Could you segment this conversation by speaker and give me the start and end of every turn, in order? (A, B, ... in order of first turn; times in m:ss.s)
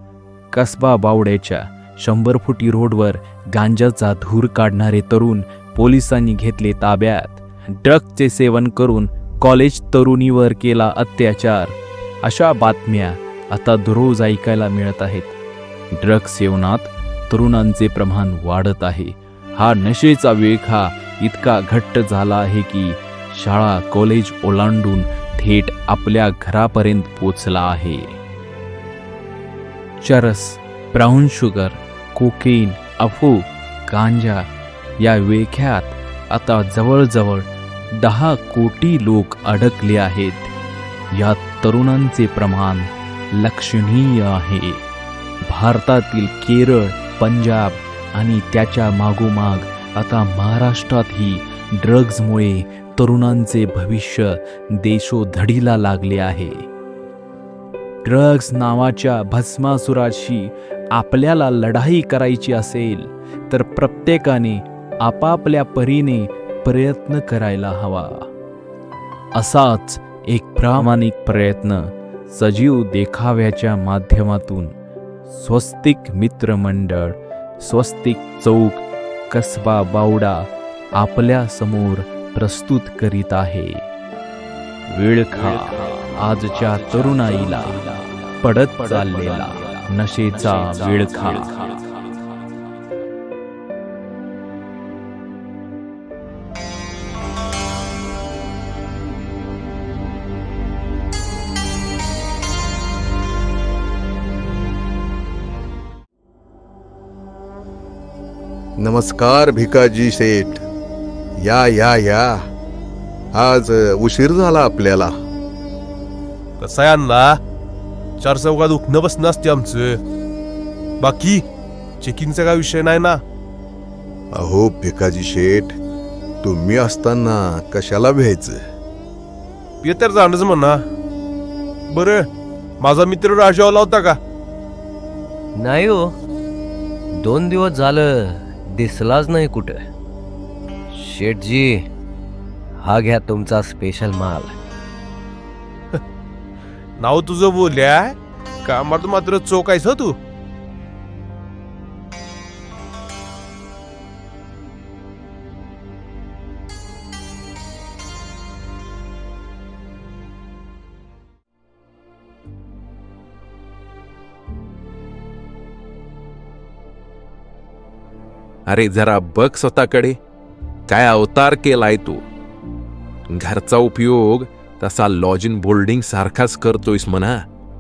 0:00.5-0:15.4 A
0:16.0-0:28.2 A
0:30.0-0:34.4 A
0:35.0-0:37.5 A
0:38.0-0:40.5 A
0:41.1-0:44.8 A
0:45.5-0:56.6 A
0:58.0-1:08.2 A
1:09.4-1:14.7 A
1:15.3-1:23.8 A
1:24.9-1:31.8 A
1:48.8-1:50.6 B
1:51.4-1:52.4 B
1:53.3-1:55.1 B
1:56.6-1:57.4 C
1:58.2-2:00.0 C
2:01.0-2:01.4 C
2:02.0-2:03.2 C
2:04.3-2:05.7 B
2:06.4-2:08.6 B
2:09.8-2:10.8 C
2:11.9-2:12.3 C
2:12.8-2:14.2 C
2:15.6-2:16.1 D
2:17.2-2:19.8 D
2:20.9-2:21.8 D
2:22.8-2:24.5 D
2:27.0-2:30.2 C
2:48.7-2:50.2 E
2:50.9-2:52.2 E
2:53.3-2:57.4 E